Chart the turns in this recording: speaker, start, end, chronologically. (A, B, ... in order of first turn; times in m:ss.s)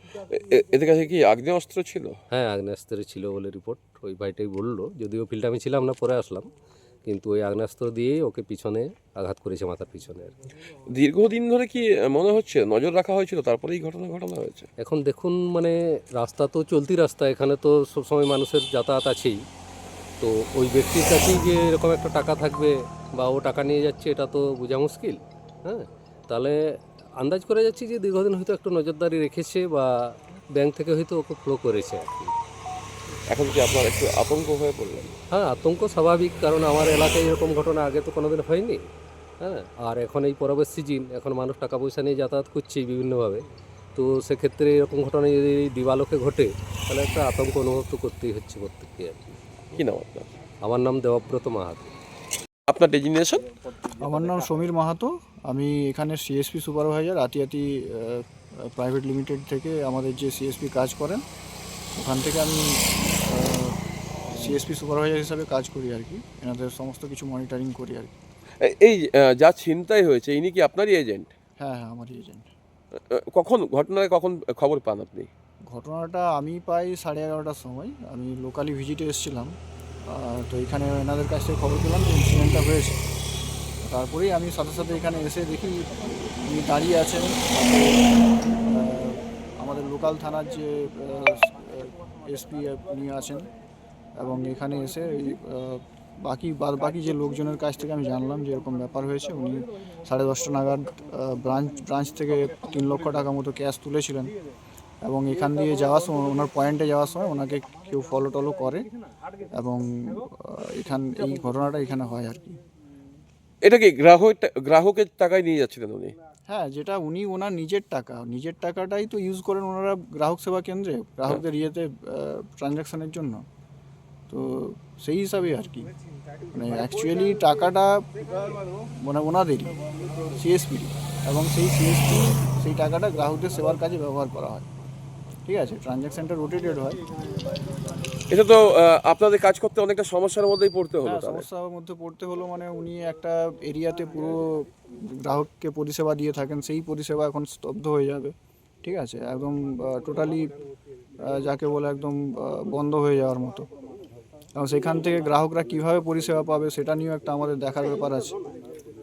0:00.3-0:02.2 A
0:02.3-0:06.5 B
0:07.0-0:10.3 B
0:10.9-0:14.7 A
0:14.8-0:19.4 B
0:20.2-0:26.6 B
0:27.2-0:32.3 B
0:33.3-0:35.2 A
0:35.3-0:38.8 B
0:39.4-0:43.4 B
0:44.0-0:49.4 B
0:49.7-0:50.3 A
0:50.6-0:51.9 B
0:52.7-0:53.5 A
0:53.9-1:01.2 C
1:02.0-1:03.8 C
1:04.3-1:08.1 C
1:08.6-1:11.3 A
1:11.6-1:12.5 C
1:13.1-1:15.3 A
1:15.7-1:19.5 C
1:20.1-1:23.0 C
1:23.8-1:28.0 C
1:28.6-1:33.5 C
1:34.2-1:44.3 C
1:45.0-1:48.9 C
1:49.5-1:52.6 C
1:53.6-1:56.2 A
1:56.5-2:03.4 C
2:04.3-2:05.9 C
2:06.5-2:08.1 C
2:09.0-2:09.8 C
2:10.3-2:14.7 C
2:15.4-2:17.0 C
2:18.3-2:21.4 A
2:21.0-2:30.5 C
2:31.2-2:33.7 C
2:34.6-2:38.4 C